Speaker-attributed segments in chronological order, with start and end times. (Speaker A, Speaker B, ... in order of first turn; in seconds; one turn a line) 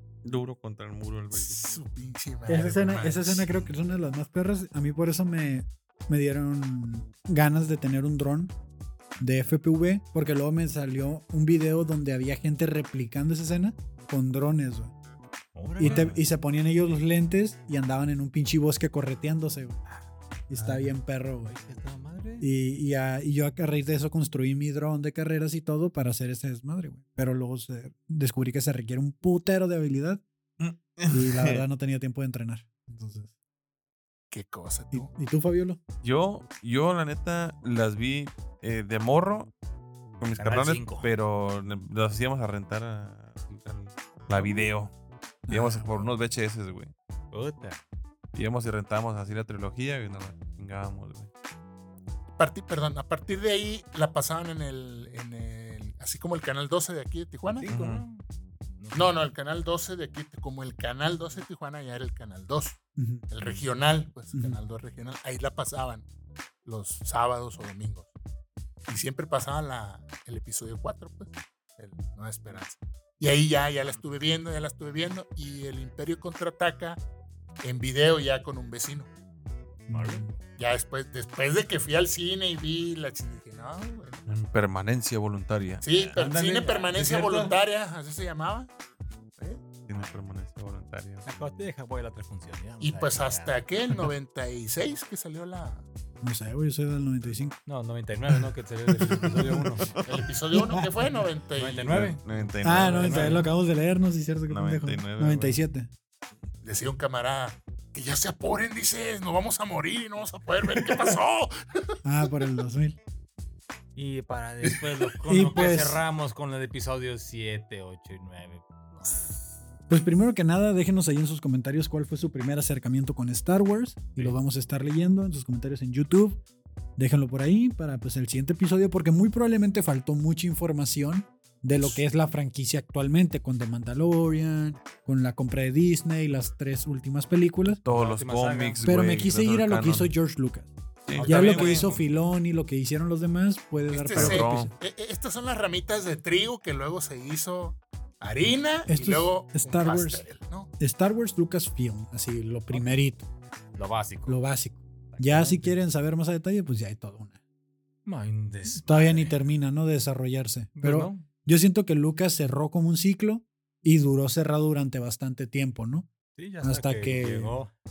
Speaker A: 0.2-1.6
Speaker B: 1.3-3.6
Speaker C: 2.5-8.5
Speaker C: 9.2-14.9
Speaker D: 15.5-16.1
Speaker A: 15.8-16.2
Speaker C: 15.8-19.8
Speaker C: 20.5-21.5
Speaker A: 20.5-20.9
Speaker D: 21.4-22.5
Speaker C: 22.4-30.2
Speaker A: 30.6-31.6
Speaker C: 31.1-33.3
Speaker B: 34.3-35.1
Speaker C: 34.9-35.8
Speaker A: 36.0-39.5
Speaker A: 40.2-44.9
Speaker D: 40.4-41.1
Speaker C: 45.5-46.1
Speaker A: 45.5-46.9
Speaker D: 47.3-47.8
Speaker A: 48.3-51.3
Speaker B: 52.4-57.7
Speaker D: 57.5-58.2
Speaker A: 57.7-58.0
Speaker D: 58.8-59.1
Speaker B: 58.9-66.1
Speaker C: 63.0-63.2
Speaker A: 63.4-63.6
Speaker C: 64.3-64.6
Speaker B: 66.6-68.1
Speaker B: 68.9-77.0
Speaker B: 77.6-79.1
Speaker C: 79.9-80.3
Speaker D: 79.9-80.2
Speaker B: 80.5-84.2
Speaker A: 84.2-86.2
Speaker B: 85.8-88.7
Speaker D: 86.2-87.6
Speaker A: 89.4-91.3
Speaker D: 91.2-93.6
Speaker B: 92.8-95.8
Speaker C: 96.2-97.6
Speaker D: 97.7-99.9
Speaker C: 99.0-99.6
Speaker B: 100.0-101.9
Speaker C: 100.5-100.9
Speaker D: 101.5-103.4
Speaker A: 101.9-103.4
Speaker C: 102.6-105.9
Speaker A: 104.5-105.5
Speaker B: 106.6-112.0
Speaker C: 112.0-113.0
Speaker D: 114.0-119.3
Speaker C: 115.2-116.0
Speaker C: 119.9-126.4
Speaker C: 127.0-137.8
Speaker A: 137.8-140.1
Speaker D: 137.9-138.9
Speaker C: 138.8-144.7
Speaker A: 141.1-141.9
Speaker D: 141.2-142.1
Speaker B: 143.9-150.7
Speaker A: 144.1-144.7
Speaker C: 148.9-150.2
Speaker C: 150.8-153.3
Speaker D: 153.7-154.4
Speaker C: 154.3-157.4
Speaker D: 155.1-155.8
Speaker D: 158.0-159.3
Speaker C: 158.7-166.1
Speaker D: 160.8-161.2
Speaker D: 166.3-167.7
Speaker C: 166.6-167.6